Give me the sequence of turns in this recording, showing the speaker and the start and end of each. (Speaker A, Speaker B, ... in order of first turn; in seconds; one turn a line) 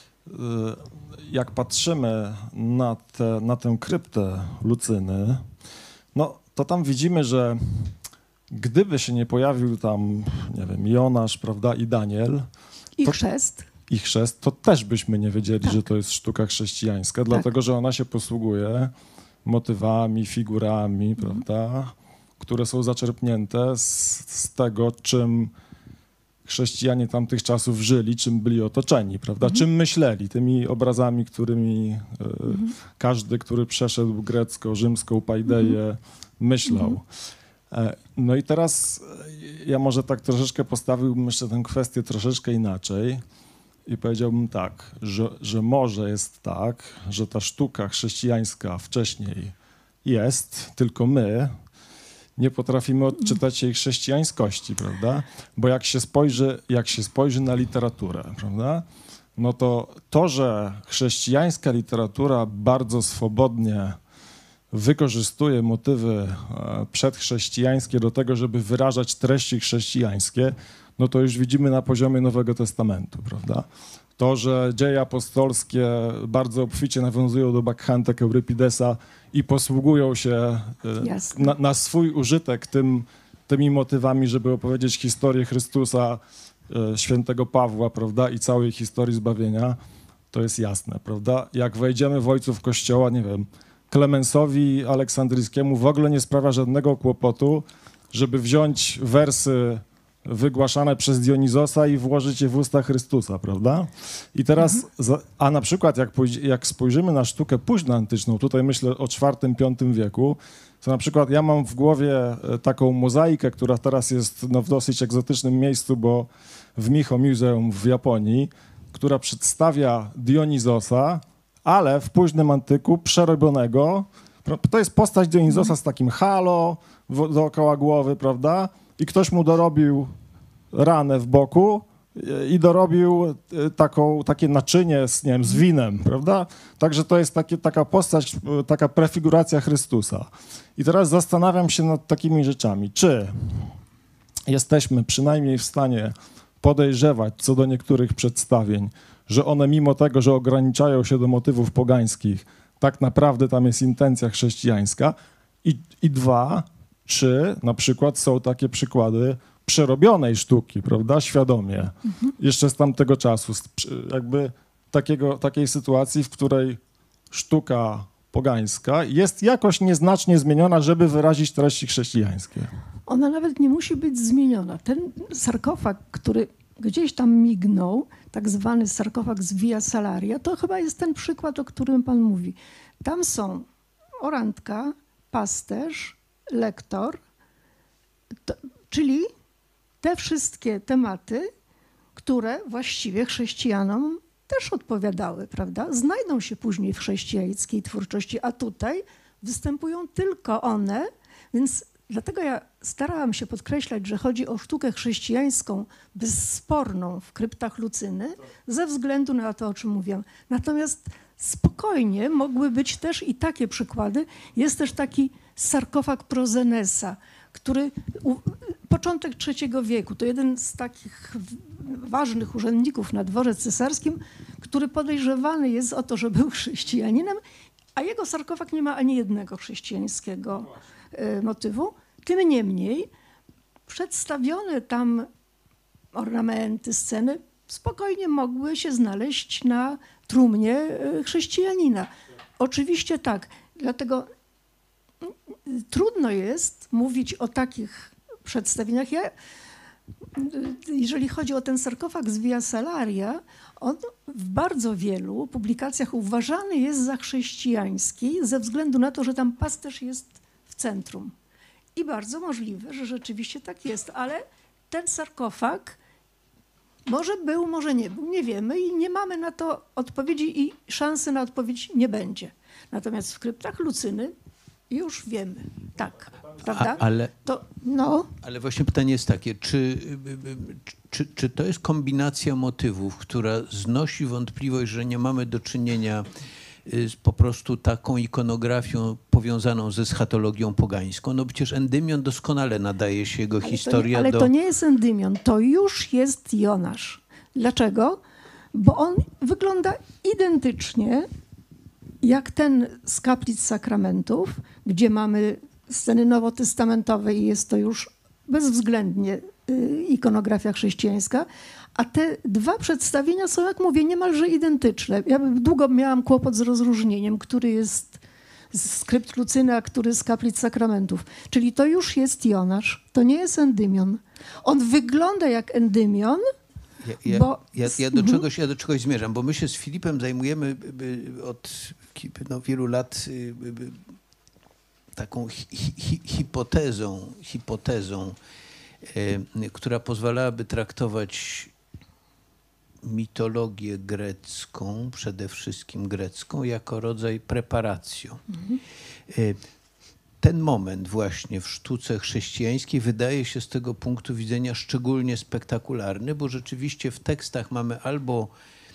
Speaker A: 0.3-5.5
Speaker A: 6.1-7.9
Speaker A: 8.5-12.5
Speaker B: 13.0-13.7
Speaker A: 13.9-18.9
Speaker A: 19.4-25.5
Speaker B: 21.2-21.4
Speaker A: 26.5-37.0
Speaker B: 32.5-32.7
Speaker B: 35.5-35.8
Speaker B: 36.7-37.0
Speaker A: 37.7-43.2
Speaker A: 43.9-49.5
Speaker A: 50.0-51.5
Speaker A: 52.4-58.8
Speaker A: 59.4-64.0
Speaker A: 64.7-73.7
Speaker A: 74.2-89.8
Speaker B: 81.0-81.5
Speaker A: 90.3-130.1
Speaker A: 130.7-143.7
Speaker A: 144.5-166.8
Speaker A: 167.3-172.7
Speaker B: 173.1-183.7
Speaker B: 184.2-187.2
Speaker B: 188.4-189.3
Speaker B: 190.0-191.5
Speaker B: 192.2-227.4
Speaker B: 227.9-233.1
Speaker B: 233.9-235.3
Speaker B: 236.1-244.3
Speaker B: 245.2-249.3
Speaker B: 250.3-261.3
Speaker B: 261.9-266.0
Speaker B: 267.1-274.3
Speaker B: 274.9-278.3
Speaker C: 276.6-277.3
Speaker C: 278.4-286.3
Speaker C: 286.8-294.5
Speaker B: 293.6-298.2
Speaker B: 298.7-301.3
Speaker B: 302.2-318.2
Speaker B: 318.7-326.4
Speaker C: 327.0-334.0
Speaker B: 327.2-328.4
Speaker C: 335.1-338.4
Speaker C: 339.0-341.7
Speaker C: 343.0-348.4
Speaker B: 348.5-348.8
Speaker C: 349.3-349.6
Speaker C: 350.4-358.5